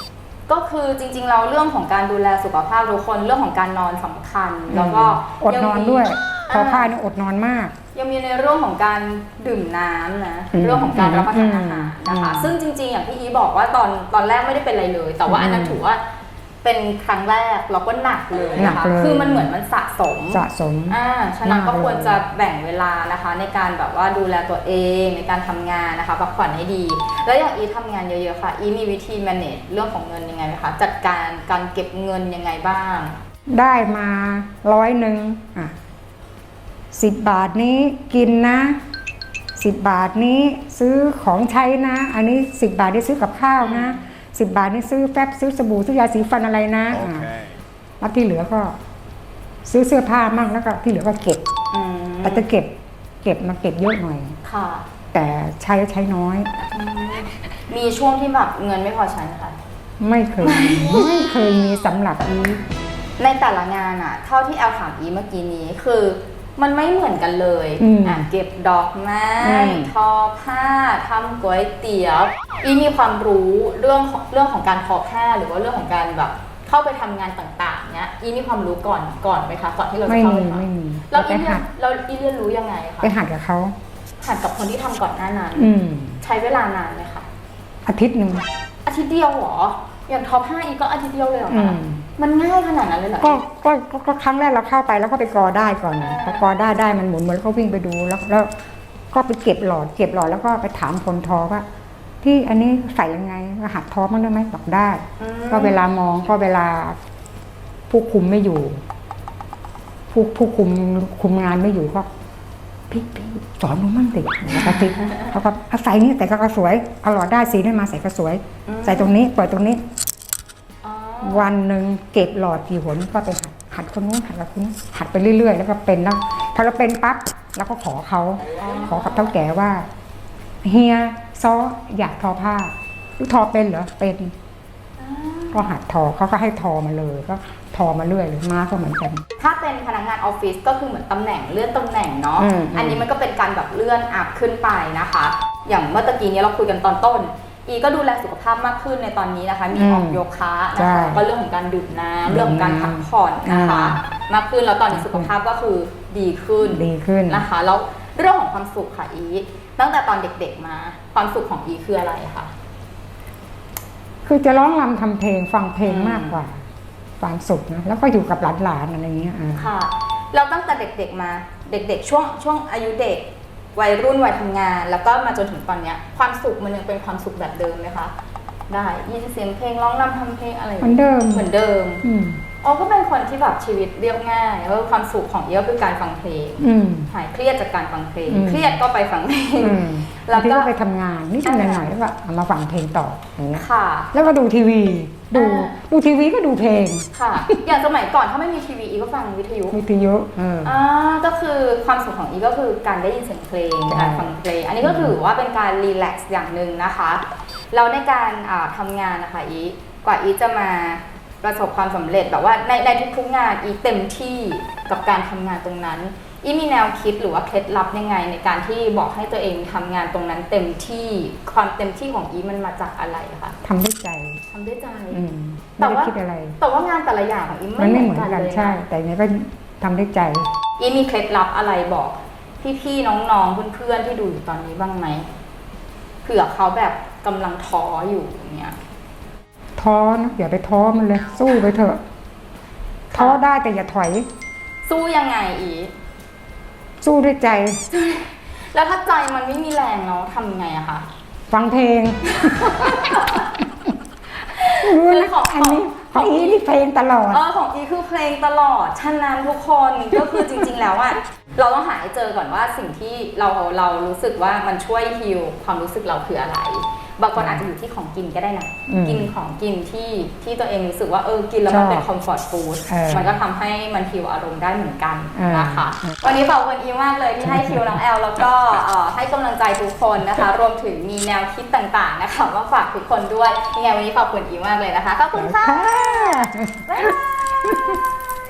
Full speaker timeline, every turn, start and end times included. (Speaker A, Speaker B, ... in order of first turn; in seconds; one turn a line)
Speaker A: 0.5-6.9
Speaker B: 4.7-7.7
Speaker A: 7.9-16.0
Speaker B: 10.5-12.5
Speaker B: 15.3-15.8
Speaker A: 16.6-33.2
Speaker B: 18.6-19.5
Speaker B: 20.3-22.2
Speaker B: 33.5-35.7
Speaker B: 36.9-38.8
Speaker B: 39.6-47.4
Speaker A: 43.6-44.0
Speaker B: 48.0-48.7
Speaker B: 49.6-51.4
Speaker A: 51.7-52.5
Speaker B: 52.2-54.4
Speaker A: 54.4-54.8
Speaker B: 55.1-56.5
Speaker A: 56.7-59.6
Speaker B: 60.0-62.6
Speaker A: 60.4-61.1
Speaker A: 63.2-83.1
Speaker B: 67.8-68.3
Speaker B: 69.4-69.9
Speaker B: 80.0-81.6
Speaker B: 83.0-83.7
Speaker A: 84.2-87.2
Speaker B: 85.5-86.2
Speaker B: 87.8-88.5
Speaker A: 88.8-93.4
Speaker B: 91.5-92.0
Speaker B: 93.2-98.5
Speaker A: 96.0-96.5
Speaker B: 99.1-101.6
Speaker B: 102.2-107.0
Speaker A: 105.2-105.8
Speaker B: 107.9-108.8
Speaker B: 110.1-112.1
Speaker B: 112.9-119.8
Speaker A: 114.5-115.3
Speaker A: 118.7-119.1
Speaker A: 120.8-121.5
Speaker B: 121.2-129.9
Speaker A: 128.6-129.3
Speaker B: 130.6-134.3
Speaker A: 135.0-135.7
Speaker B: 135.5-139.2
Speaker A: 139.4-162.5
Speaker B: 142.4-143.0
Speaker B: 149.7-150.2
Speaker B: 150.8-151.2
Speaker B: 152.3-154.0
Speaker B: 154.9-155.3
Speaker B: 156.6-157.4
Speaker B: 164.2-166.6
Speaker A: 165.8-166.4
Speaker B: 167.2-169.7
Speaker A: 169.6-178.1
Speaker A: 178.7-182.0
Speaker B: 180.8-181.5
Speaker B: 182.0-182.4
Speaker A: 182.6-190.7
Speaker B: 186.6-187.1
Speaker B: 188.3-188.8
Speaker B: 189.6-197.5
Speaker A: 191.4-191.9
Speaker A: 193.6-194.1
Speaker A: 195.3-195.8
Speaker A: 197.1-199.8
Speaker B: 199.7-200.7
Speaker A: 200.6-223.6
Speaker B: 203.9-204.3
Speaker B: 204.8-205.2
Speaker B: 223.6-224.4
Speaker A: 224.5-225.2
Speaker B: 225.1-226.6
Speaker A: 225.8-228.8
Speaker B: 227.8-230.5
Speaker A: 230.8-235.2
Speaker A: 236.2-238.8
Speaker B: 239.8-242.0
Speaker A: 243.1-243.4
Speaker B: 243.1-244.3
Speaker A: 244.8-245.9
Speaker B: 247.0-247.8
Speaker A: 247.9-251.1
Speaker B: 251.5-253.3
Speaker A: 252.3-253.5
Speaker A: 254.5-256.6
Speaker B: 254.8-257.4
Speaker A: 257.3-288.1
Speaker B: 267.4-267.6
Speaker B: 268.9-269.3
Speaker B: 271.7-272.1
Speaker B: 272.9-273.3
Speaker B: 275.3-276.1
Speaker B: 277.4-278.0
Speaker B: 285.3-288.0